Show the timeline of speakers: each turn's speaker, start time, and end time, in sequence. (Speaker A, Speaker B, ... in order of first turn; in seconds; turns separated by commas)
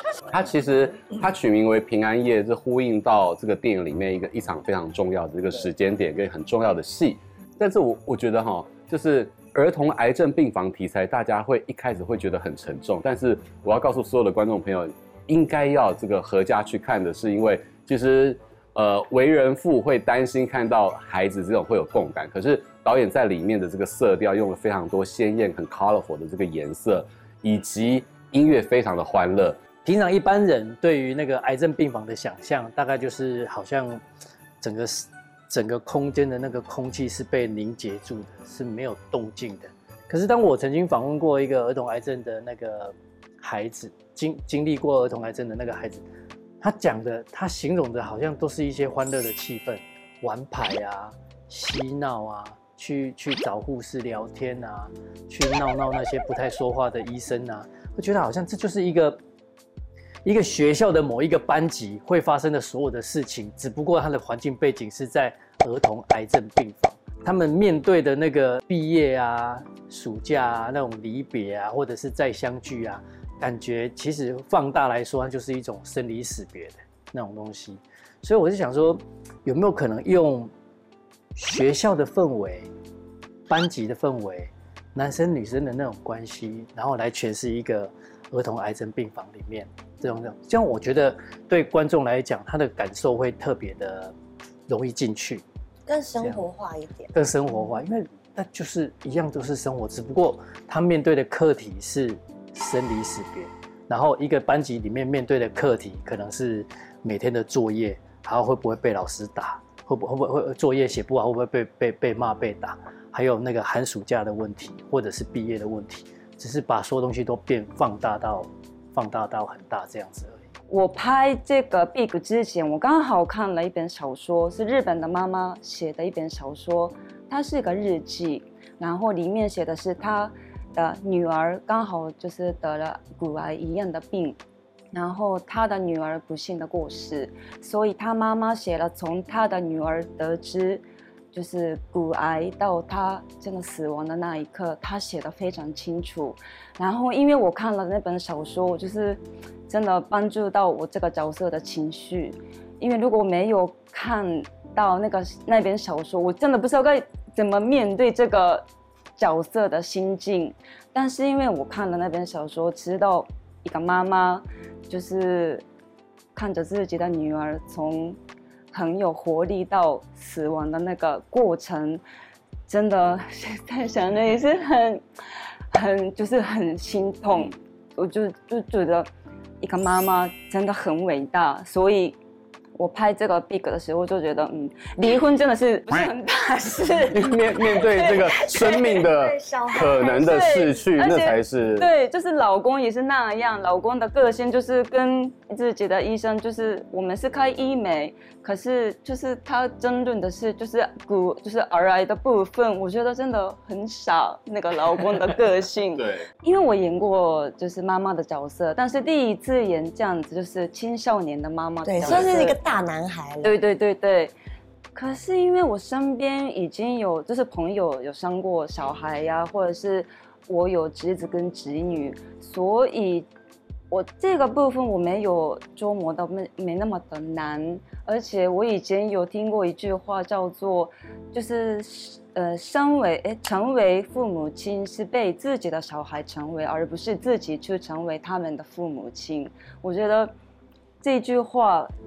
Speaker A: 0.3-29.6, Speaker B: 29.8-34.0, Speaker B: 34.6-46.0, Speaker B: 46.6-59.2, Speaker B: 60.2-80.5, Speaker B: 81.3-82.7, Speaker B: 83.5-94.2, Speaker B: 94.7-95.4, Speaker C: 95.9-97.1, Speaker B: 96.2-96.5, Speaker B: 97.1-120.5, Speaker D: 120.7-134.4, Speaker D: 134.9-158.6, Speaker D: 159.2-165.6, Speaker D: 166.3-168.2, Speaker D: 168.7-172.0, Speaker D: 172.7-175.0, Speaker D: 175.7-179.1, Speaker D: 179.6-182.2, Speaker D: 182.8-188.1, Speaker A: 187.1-191.9, Speaker C: 189.0-190.2, Speaker D: 189.9-212.6, Speaker A: 206.0-206.2, Speaker C: 211.8-213.6, Speaker D: 213.4-214.3, Speaker D: 214.9-223.3, Speaker D: 223.9-240.3, Speaker D: 241.0-241.9